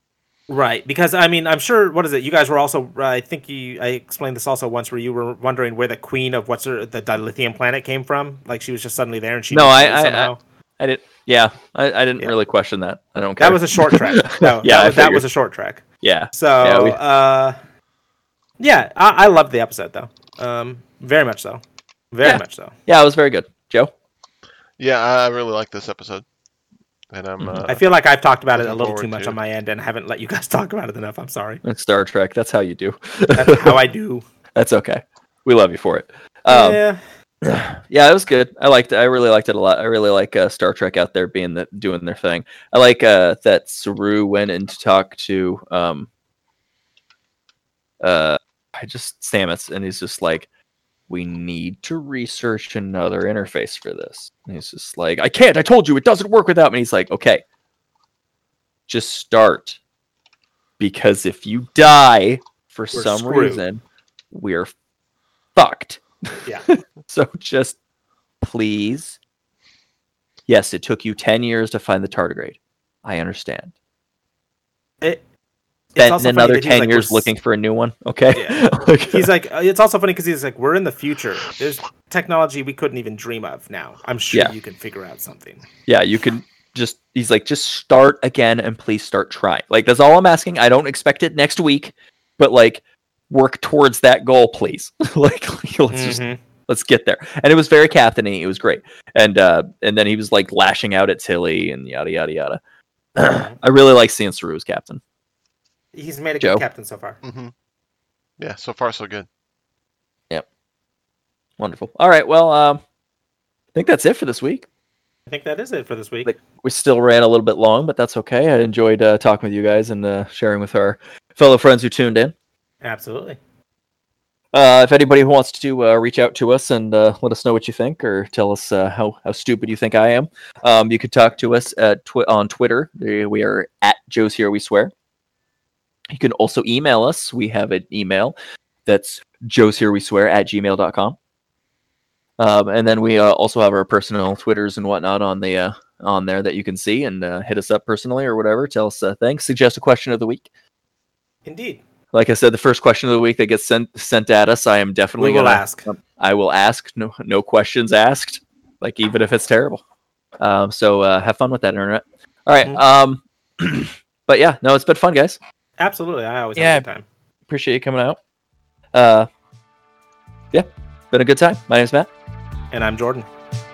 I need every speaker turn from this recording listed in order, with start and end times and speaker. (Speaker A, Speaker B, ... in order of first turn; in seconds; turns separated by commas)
Speaker A: 0.5-10.4, Speaker B: 9.5-15.2, Speaker A: 13.4-17.6, Speaker B: 16.0-17.0, Speaker A: 18.6-22.7, Speaker B: 22.2-23.9, Speaker C: 24.8-26.2, Speaker C: 27.1-27.8, Speaker B: 27.4-27.7, Speaker A: 27.7-31.6, Speaker C: 28.5-29.4, Speaker B: 31.6-33.8, Speaker A: 33.3-34.2, Speaker B: 34.5-36.8, Speaker A: 36.5-37.0, Speaker B: 37.4-46.1, Speaker B: 48.0-50.5, Speaker B: 51.1-57.4, Speaker B: 58.9-59.8, Speaker B: 60.8-64.7, Speaker A: 62.9-63.6, Speaker B: 65.5-67.8, Speaker B: 68.4-69.2, Speaker B: 70.5-73.7, Speaker A: 75.9-77.3, Speaker B: 76.0-79.3, Speaker A: 78.3-85.6, Speaker B: 85.9-102.6, Speaker A: 95.9-96.4, Speaker B: 103.2-105.0, Speaker A: 103.2-103.5, Speaker A: 105.9-107.2, Speaker C: 107.2-107.5, Speaker C: 108.4-109.3, Speaker B: 111.6-112.8, Speaker B: 113.7-114.7, Speaker A: 115.3-116.3, Speaker B: 116.2-122.3, Speaker A: 122.8-123.4, Speaker B: 124.5-134.9, Speaker B: 136.1-138.3, Speaker B: 138.9-141.2, Speaker B: 142.4-150.5, Speaker A: 151.4-151.8, Speaker B: 152.1-159.8, Speaker A: 155.2-155.9, Speaker B: 160.4-165.4, Speaker A: 165.8-167.0, Speaker B: 166.6-166.8, Speaker B: 167.5-168.2, Speaker B: 168.9-169.3, Speaker B: 170.5-172.1, Speaker A: 172.7-173.3